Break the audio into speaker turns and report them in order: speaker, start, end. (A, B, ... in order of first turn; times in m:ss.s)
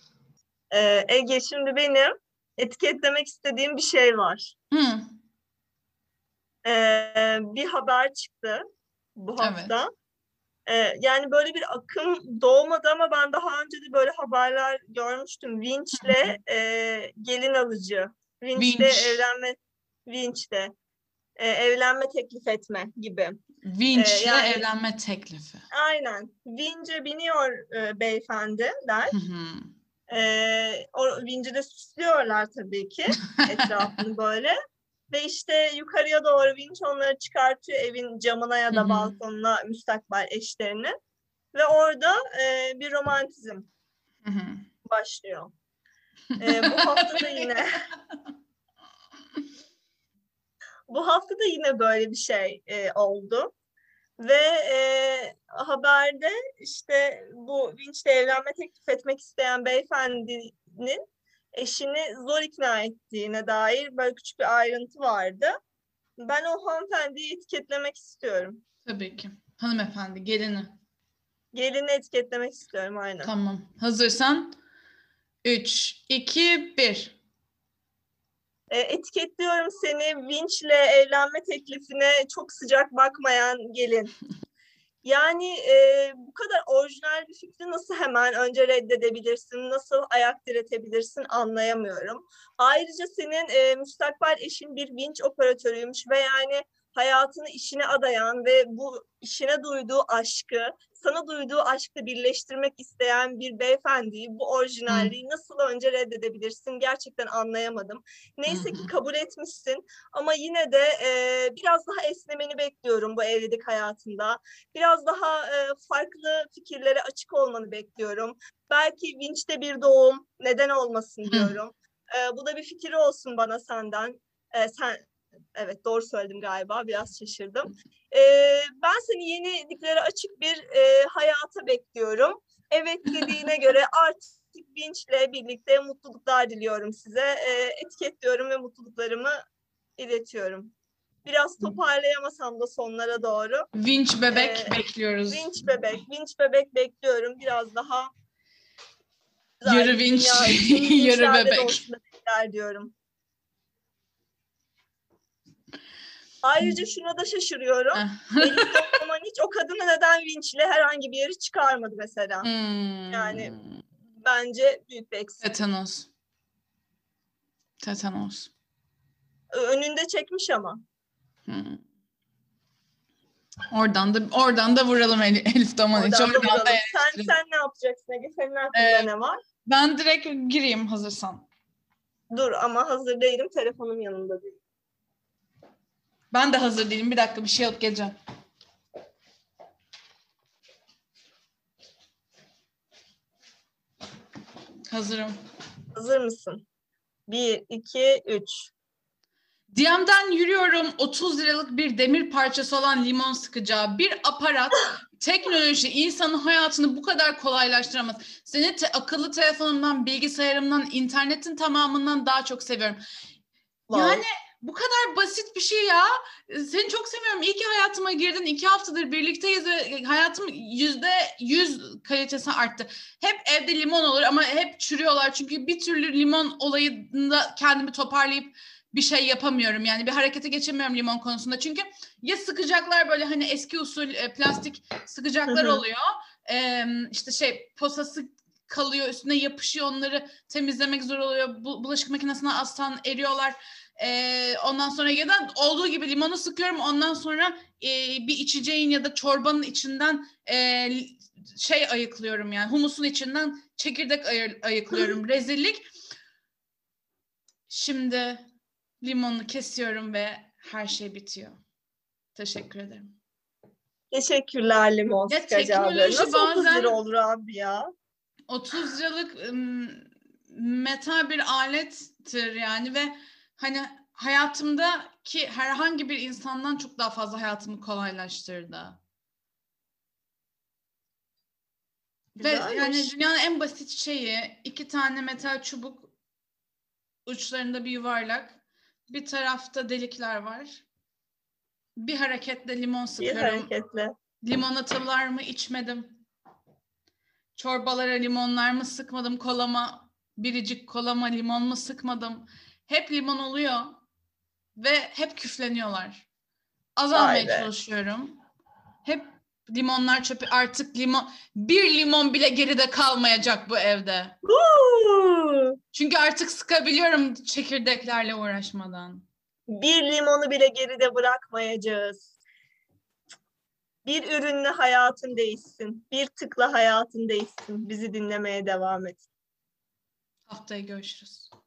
0:00.7-0:04.5 A
0:04.7-0:05.1 B
0:06.6-0:08.6 A
0:09.2-0:09.9 A
0:09.4-0:09.8 B
0:10.7-0:20.7 A
0:16.0-0:16.4 B
0:18.6-0:19.2 B
0:21.4-0:23.4 A
0:23.6-0:25.6 B
0:24.0-0:24.6 A
0:25.7-0:29.2 A
0:29.1-0:29.7 B
0:30.1-0:34.6 A
0:33.3-0:34.0 B
0:35.1-0:40.9 A
0:38.7-0:39.2 B
0:41.5-0:43.7 A
0:44.2-0:44.7 B
0:44.8-0:45.5 A
0:46.4-0:47.6 B
0:46.4-0:47.7 A
0:50.9-0:53.5 A
0:54.2-1:01.0 A
1:01.5-1:05.6 A
1:06.2-1:08.6 A
1:08.8-1:10.8 B
1:11.5-1:13.3 A
1:13.2-1:14.6 B
1:15.4-1:17.2 B
1:18.7-1:24.1 A
1:25.0-2:05.0 A
1:48.5-1:48.9 B
2:01.3-2:01.6 B
2:05.6-2:19.4 A
2:20.0-2:20.7 A
2:21.2-2:23.7 A
2:23.7-2:25.6 B
2:24.3-2:24.7 A
2:25.3-2:28.1 A
2:29.6-2:32.9 A
2:29.6-2:31.8 B
2:36.4-2:42.5 A
2:38.0-2:39.0 B
2:42.4-2:43.8 B
2:43.1-2:43.6 A
2:44.2-2:45.4 A
2:45.4-2:46.1 B
2:47.8-2:48.5 B
2:49.5-2:50.8 A
2:51.5-2:51.8 B
2:53.7-2:57.3 B
2:56.0-2:59.4 A
2:58.7-2:59.1 B
2:59.7-3:01.5 B
3:02.3-3:04.6 A
3:06.3-3:08.1 B
3:14.9-3:15.4 B
3:16.0-3:16.6 A
3:17.3-3:18.7 A
3:19.7-3:33.0 B
3:33.9-3:34.2 A
3:33.9-4:15.8 B
3:55.5-3:55.8 A
4:17.7-4:18.4 B
4:19.0-4:21.6 B
4:22.4-4:23.1 B
4:24.1-4:27.9 A
4:25.3-4:27.0 B
4:28.5-4:39.0 B
4:42.4-4:46.1 B
4:42.4-4:43.1 A
4:47.3-4:50.8 B
4:52.0-4:53.7 B
4:53.2-4:54.1 A
4:54.4-4:56.2 B
4:57.6-5:04.0 B
5:04.8-5:06.3 B
5:07.0-5:08.4 B
5:07.2-5:07.7 A
5:09.0-5:14.4 B
5:14.4-5:15.8 A
5:15.9-5:19.2 B
5:19.7-5:22.3 A
5:24.1-5:29.2 A
5:30.5-5:31.5 B